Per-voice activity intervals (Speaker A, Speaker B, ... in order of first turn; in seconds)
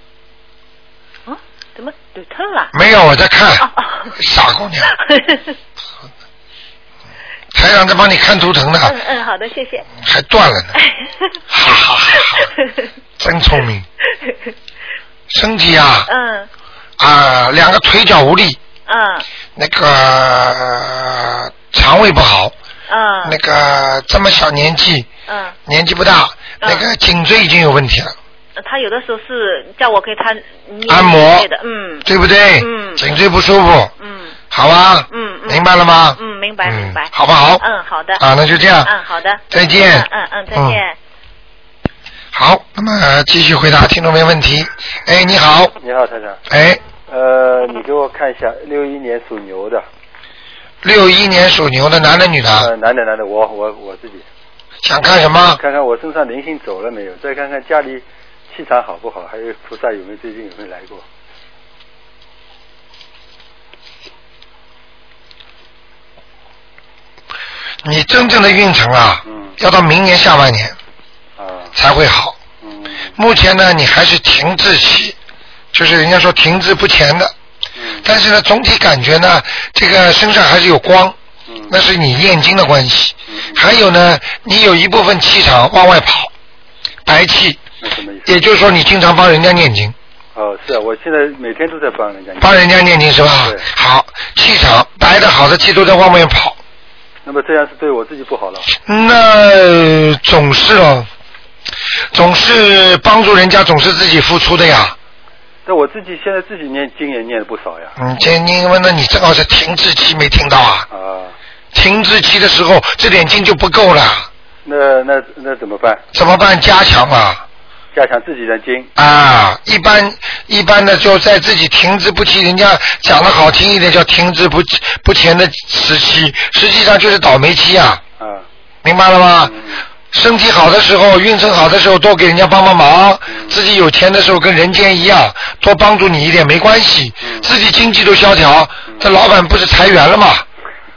Speaker A: 1.3-2.7, 3.6-4.2, 4.9-5.5, 8.8-9.9, 10.8-11.3, 12.1-12.9, 16.1-16.5, 18.9-19.3, 22.9-23.4, 25.3-25.6, 26.6-26.9, 28.6-32.1, 32.6-33.1, 34.0-34.4, 35.1-38.2, 38.8-41.0
Speaker B: 2.7-4.9, 7.5-8.9, 10.0-10.7, 11.5-12.5, 13.2-13.9, 15.3-16.1, 17.0-18.6, 19.6-22.5, 23.2-25.1, 25.7-28.1, 30.9-31.5, 32.0-33.9, 34.5-37.6, 38.2-38.9, 39.5-40.8, 42.3-45.8, 46.5-46.8, 50.8-52.7, 54.8-55.6, 67.8-70.8, 71.8-72.4, 73.2-75.2, 75.7-77.3, 78.0-81.2, 81.7-86.3, 87.1-87.6, 88.3-90.0, 92.4-96.6, 98.9-101.1, 102.1-105.0, 108.0-110.9, 111.7-114.3, 116.1-117.4, 119.0-128.0, 128.8-129.5, 130.1-140.4
Speaker C: 45.8-46.4, 47.1-49.9, 52.6-54.2, 55.5-61.0, 69.3-69.5, 71.4-71.7, 72.6-73.1, 77.8-78.0, 81.5-81.7, 83.3-83.7, 87.8-88.4, 90.3-92.6, 97.2-98.7, 105.7-107.9, 110.9-111.3, 114.7-116.0, 117.9-118.9, 128.2-128.5, 129.4-129.8, 133.3-133.5, 137.2-137.5